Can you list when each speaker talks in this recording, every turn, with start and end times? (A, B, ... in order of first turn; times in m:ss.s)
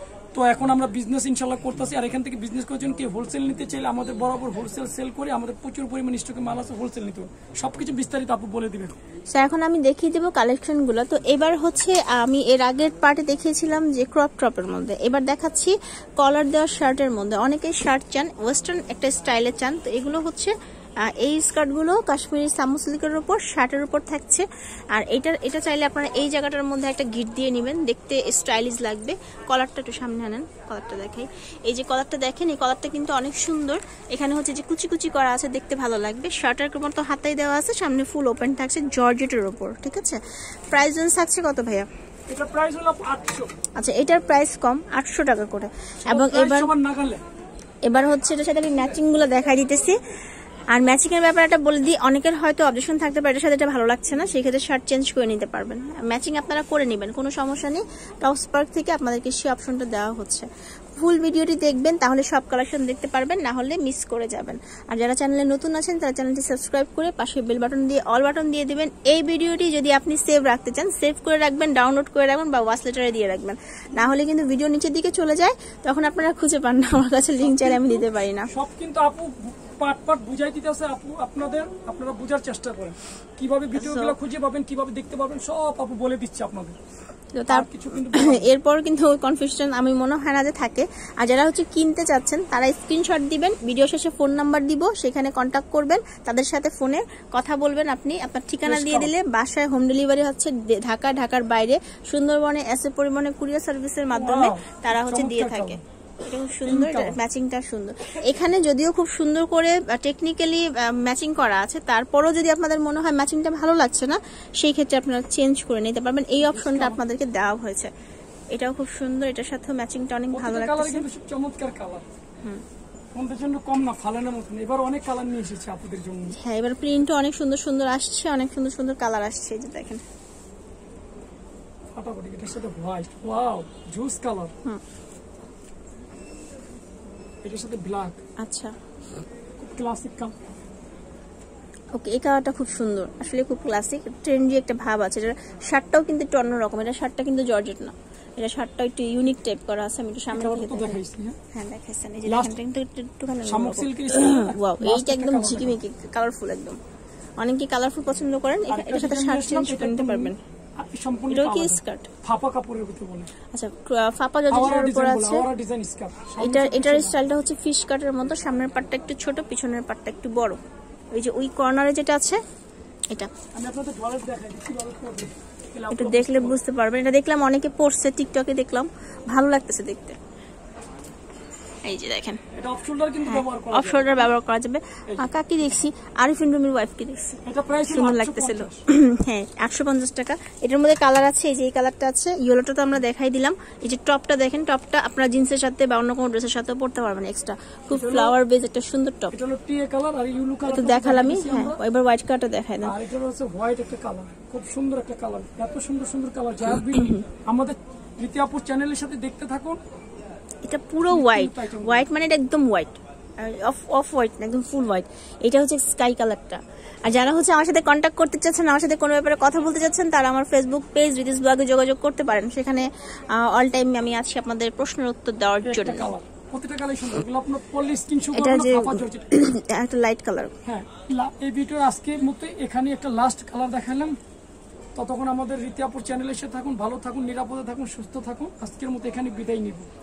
0:00.3-0:09.0 A
0:09.3-0:20.5 B
0:21.2-0:40.2 B
0:40.7-0:41.9 B
0:42.3-0:43.5 A
0:43.8-0:46.7 B
0:46.0-0:47.2 A
0:47.8-0:50.0 B
0:50.7-1:18.5 B
1:17.4-1:26.8 A
1:23.8-1:24.1 B
1:27.4-1:57.9 B
1:27.5-1:28.5 A
1:38.6-1:39.1 A
1:44.1-1:45.8 A
1:46.6-1:47.2 A
1:56.4-1:57.0 A
1:58.5-2:01.1 B
2:00.3-2:02.0 A
2:03.2-2:06.4 A
2:06.3-2:10.0 B
2:11.9-2:14.5 A
2:17.4-2:18.2 A
2:18.4-2:18.7 B
2:19.6-2:20.4 A
2:22.0-2:31.0 B
2:30.3-2:31.4 A
2:31.5-2:36.8 B
2:32.3-2:32.6 A
2:33.4-2:35.8 A
2:37.4-2:40.4 B
2:38.7-2:43.3 A
2:41.3-2:42.1 B
2:43.5-2:45.5 B
2:44.5-2:47.2 A
2:46.4-2:50.6 B
2:51.1-2:52.4 B
2:53.5-2:56.6 A
2:55.9-3:00.2 B
3:01.8-3:02.4 B
3:02.5-3:04.3 A
3:03.2-3:19.4 B
3:07.4-3:08.8 A
3:17.9-3:18.4 A
3:19.3-3:21.8 A
3:20.7-3:22.9 B
3:22.8-3:29.8 A
3:26.9-3:27.3 B
3:30.6-3:46.1 B
3:31.1-3:32.1 A
3:45.6-3:49.3 A
3:48.3-3:50.5 B
3:50.6-3:54.2 A
3:55.0-3:59.9 A